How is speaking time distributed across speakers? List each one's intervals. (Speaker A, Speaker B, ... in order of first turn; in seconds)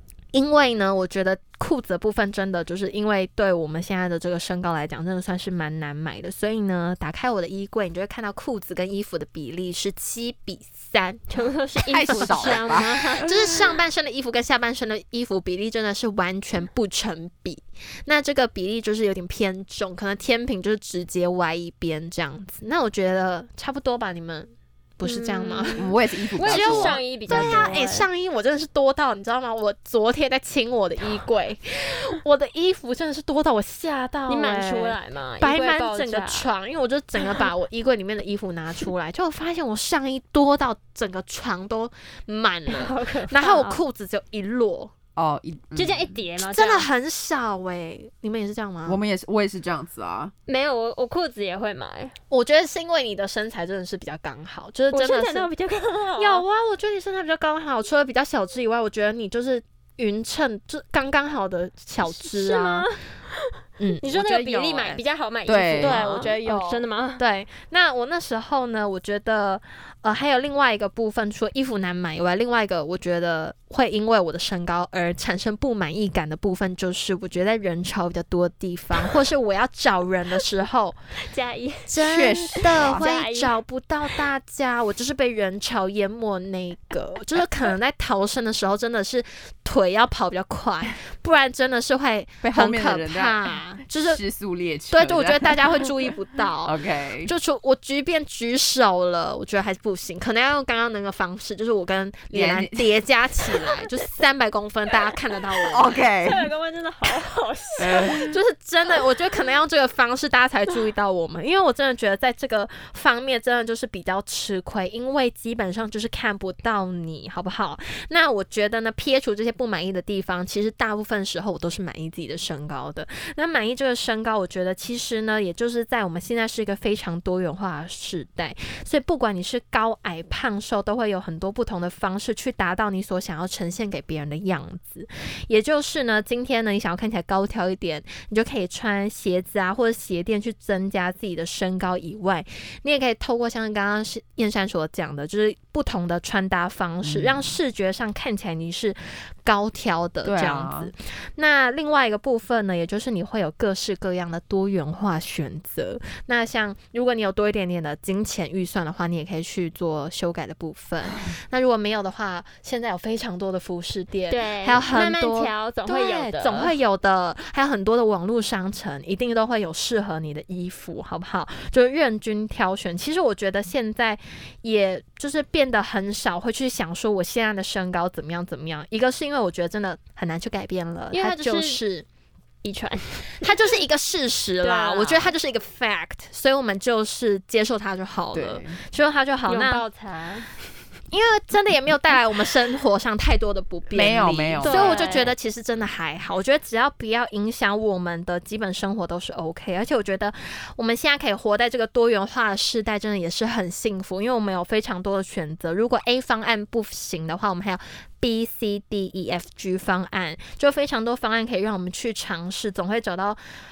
Speaker A: 0.3-11.2, 11.8-44.9, 46.4-49.0, 52.3-55.5, 56.2-62.9, 63.8-65.0, 65.8-81.0, 81.9-94.2, 94.9-106.1, 108.1-182.1, 183.4-189.8, 191.1-213.4
Speaker B: 11.3-13.3, 25.0-28.1, 34.3-36.5, 42.7-43.8, 45.8-46.9, 50.5-52.1, 54.9-56.4, 62.0-67.2, 81.2-83.5, 106.2-108.3, 164.3-166.8, 181.1-181.8, 182.6-183.5, 184.6-185.3, 189.5-190.5, 194.6-195.3
Speaker C: 11.9-13.7, 25.8-27.7, 45.2-46.2, 48.9-50.3, 65.5-66.0, 82.0-83.1, 92.4-96.1, 96.6-97.3, 102.3-102.9, 105.7-106.5, 107.8-108.3, 147.0-147.5, 150.2-150.9, 188.3-188.8, 193.9-195.0